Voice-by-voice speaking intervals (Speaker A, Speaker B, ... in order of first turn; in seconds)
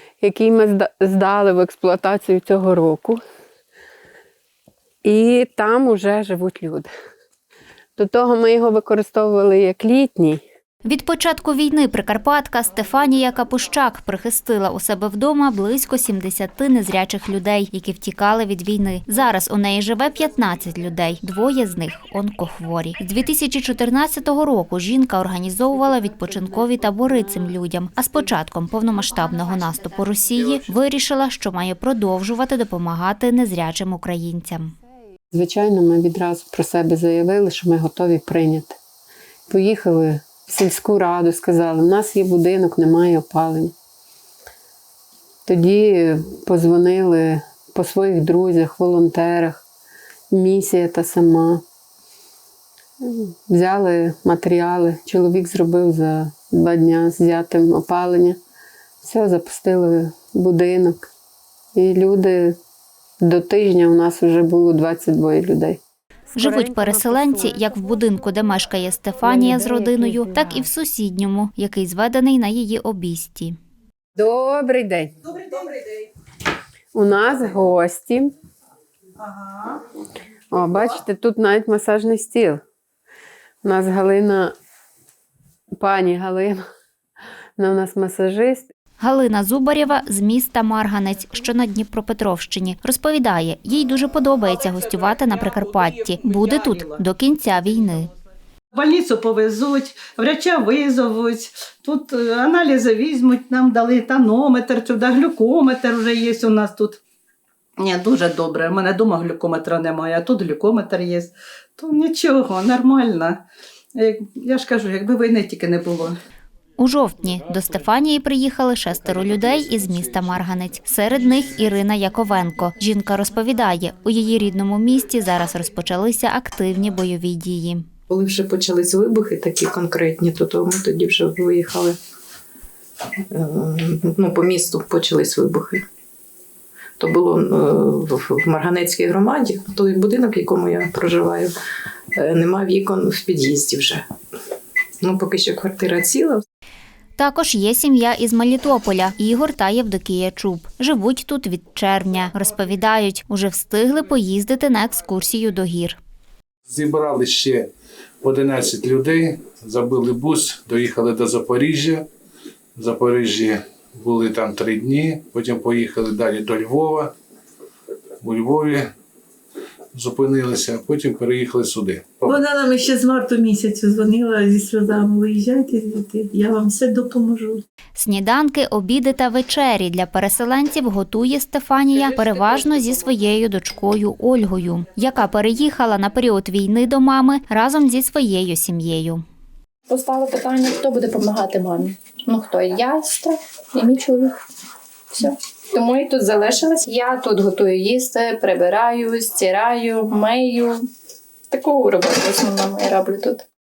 Speaker A: 0.2-3.2, 5.0-6.9, 8.0-10.4, 25.7-27.5, 35.3-38.8, 39.5-43.7, 45.5-49.6, 50.3-51.6, 53.0-58.4, 59.0-61.1, 61.8-62.6, 63.2-65.8, 66.3-67.7, 69.2-70.7, 74.2-75.3, 76.9-78.3, 80.5-82.6, 83.6-84.5, 85.8-86.6, 87.6-88.7
Speaker B: 10.8-34.7, 66.3-73.6, 89.0-98.1, 116.8-127.8, 147.2-156.0, 177.9-189.2
Speaker C: 79.2-79.8, 96.7-97.0, 98.7-107.0, 107.8-113.4, 114.0-116.1
Speaker D: 128.1-131.9, 133.3-135.8, 137.0-141.5, 142.2-144.0, 145.0-146.4
Speaker E: 156.7-157.7, 158.2-162.1, 162.8-167.1, 168.2-168.9, 169.9-172.1
Speaker F: 172.2-177.6
Speaker G: 189.9-194.3, 195.1-200.8, 201.5-203.4